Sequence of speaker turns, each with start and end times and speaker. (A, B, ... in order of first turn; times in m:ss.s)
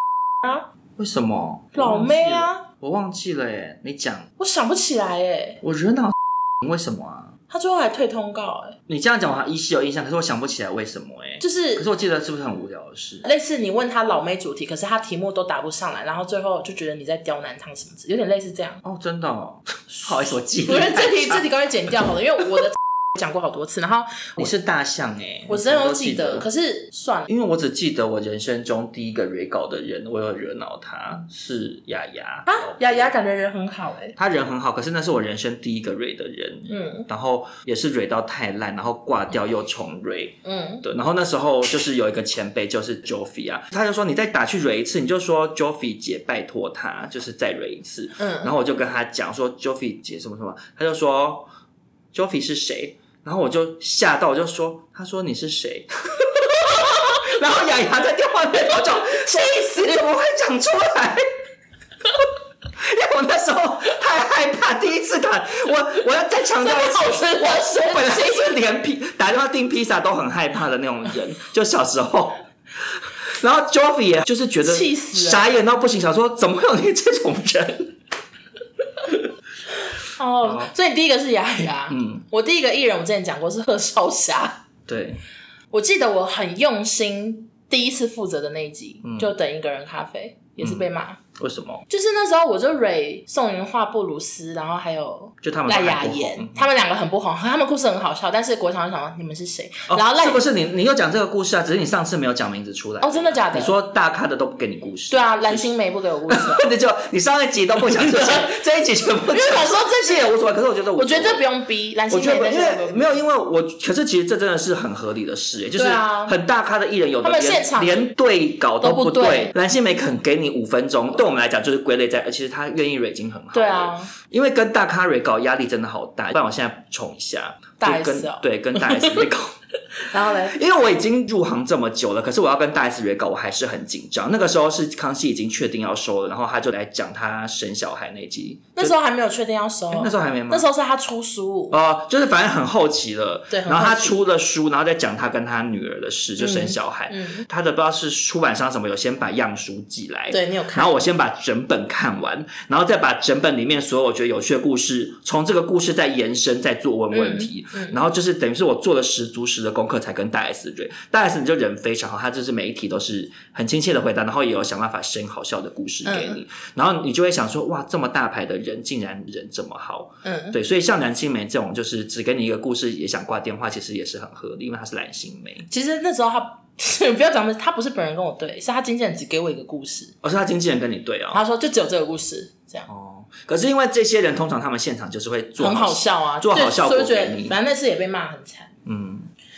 0:01.0-0:04.3 A
0:01.7-0:02.6 B
0:04.4-0:05.6 B
0:05.6-0:07.4 A
0:07.5-0:08.8 B
0:08.9-0:13.2 A
0:11.4-0:11.8 B
0:13.2-0:18.8 B
0:18.8-0:21.4 A
0:20.6-0:24.5 B
0:24.4-0:26.5 A
0:25.5-0:27.3 B
0:27.3-0:33.1 A
0:32.5-0:34.2 B
0:34.2-0:51.5 A
0:36.7-0:37.1 B
0:40.4-0:40.8 B
0:48.2-0:48.5 B
0:52.1-1:01.2 A
0:58.7-1:00.0 B
1:02.8-1:12.4 A
1:06.6-1:08.6 B
1:13.0-1:17.9 A
1:14.6-1:15.6 B
1:20.0-1:24.6 B
1:20.4-1:20.7 A
1:21.9-1:22.2 A
1:24.9-1:25.2 A
1:25.7-1:31.2 B
1:29.0-1:29.3 A
1:31.4-1:31.8 A
1:31.9-1:40.4 B
1:35.4-1:36.6 A
1:39.9-1:45.7 A
1:43.0-1:43.7 B
1:45.1-1:46.7 B
1:46.3-1:51.4 A
1:47.8-1:48.6 B
1:49.3-1:50.3 B
1:51.0-1:53.2 B
1:52.1-2:09.5 A
1:55.8-1:56.4 B
1:57.2-1:58.1 B
1:58.8-1:59.5 B
2:03.5-2:04.1 B
2:07.8-2:09.2 B
2:10.1-2:10.6 B
2:10.5-2:18.9 A
2:18.8-2:21.7 B
2:19.9-2:20.6 A
2:21.7-2:55.7 A
2:23.5-2:24.2 B
2:26.4-2:27.4 B
2:30.3-2:31.0 B
2:37.1-2:38.0 B
2:46.0-2:46.4 B
2:50.2-2:50.6 B
2:55.7-3:00.1 B
3:00.2-3:01.4 A
3:01.3-3:02.9 B
3:02.9-3:07.5 A
3:05.6-3:08.7 B
3:08.8-3:09.3 A